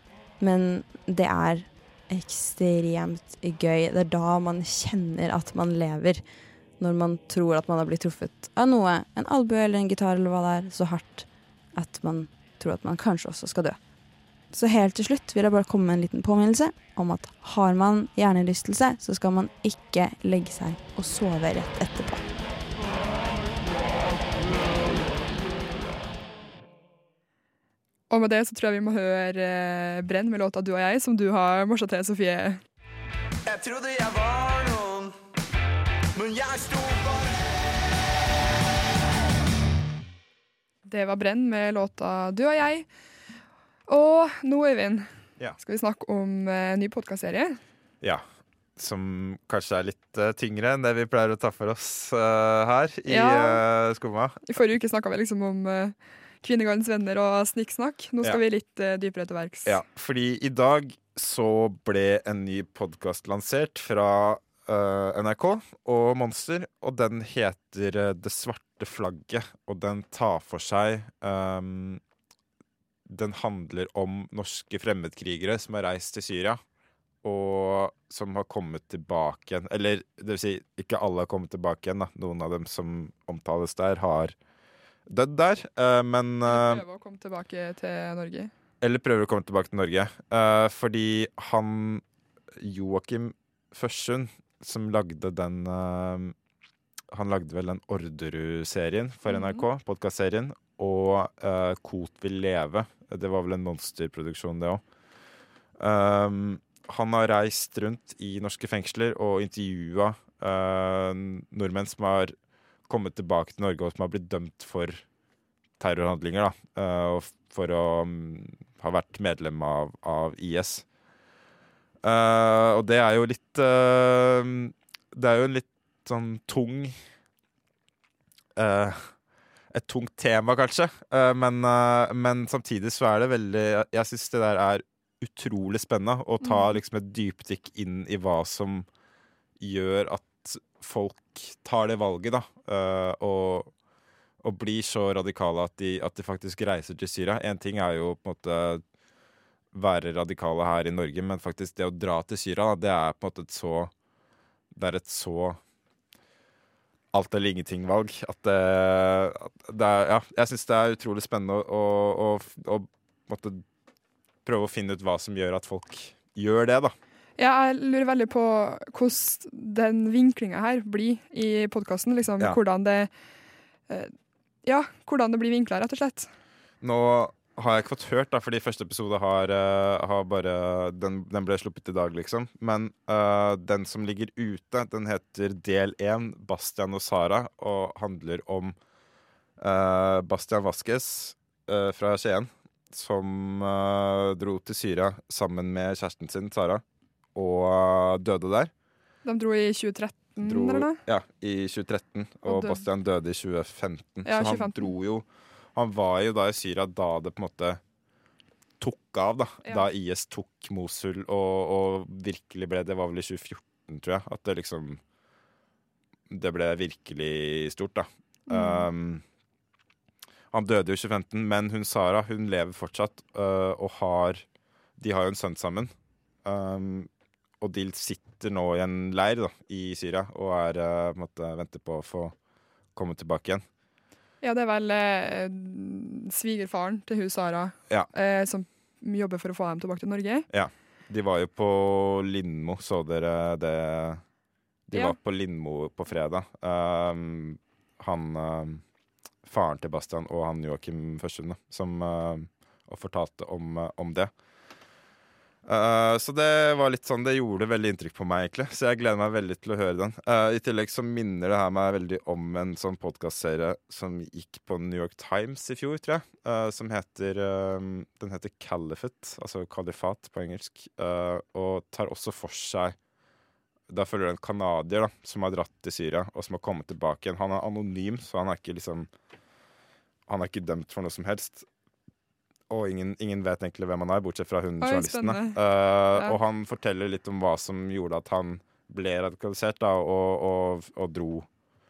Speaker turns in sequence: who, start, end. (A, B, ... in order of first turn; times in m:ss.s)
0:00.4-0:06.2 A
0:06.8-0:13.8 A
0:14.5-0:22.3 A
0:28.1-0:32.6 B
0:33.4-0:35.1 C
0:36.1-0:37.5 C
0:40.8-0:42.9 B
0:43.9-0:47.6 B
0:48.8-0:54.5 D
0:53.1-0:53.6 B
0:54.5-0:59.8 B
0:59.6-1:12.0 D
1:13.1-1:16.6 D
1:17.2-1:24.3 D
1:25.1-1:26.8 D
1:26.4-1:28.5 B
1:28.8-1:32.0 D
1:32.6-1:36.3 D
1:37.1-1:44.8 D
1:39.3-1:39.6 B
1:45.8-1:52.3 D
1:52.9-1:55.0 D
1:55.8-2:00.8 D
2:02.0-2:07.0 D
2:08.6-2:09.1 D
2:09.7-2:18.9 D
2:16.4-2:16.7 B
2:19.6-2:23.7 D
2:24.4-2:28.8 D
2:29.7-2:33.9 D
2:34.7-2:35.6 D
2:37.1-2:43.6 D
2:44.4-2:46.9 D
2:47.4-2:53.1 B
2:54.6-2:56.3 B
2:56.8-3:08.7 D
3:09.6-3:16.8 D
3:17.3-3:18.7 D
3:19.2-3:21.0 B
3:20.4-3:27.8 D
3:22.4-3:22.8 B
3:24.2-3:24.9 B
3:28.8-3:35.0 D
3:36.3-3:39.2 D
3:38.5-3:38.9 B
3:40.5-3:44.4 D
3:45.0-3:45.9 D
3:46.4-3:47.1 D
3:47.6-3:52.3 D
3:52.9-3:53.6 D
3:54.4-4:00.4 B
4:00.5-4:04.2 D
4:04.9-4:08.8 D
4:09.4-4:14.3 D
4:15.6-4:32.9 D
4:33.9-4:39.1 D
4:40.3-4:41.6 D
4:42.7-4:51.5 D
4:44.8-4:45.6 B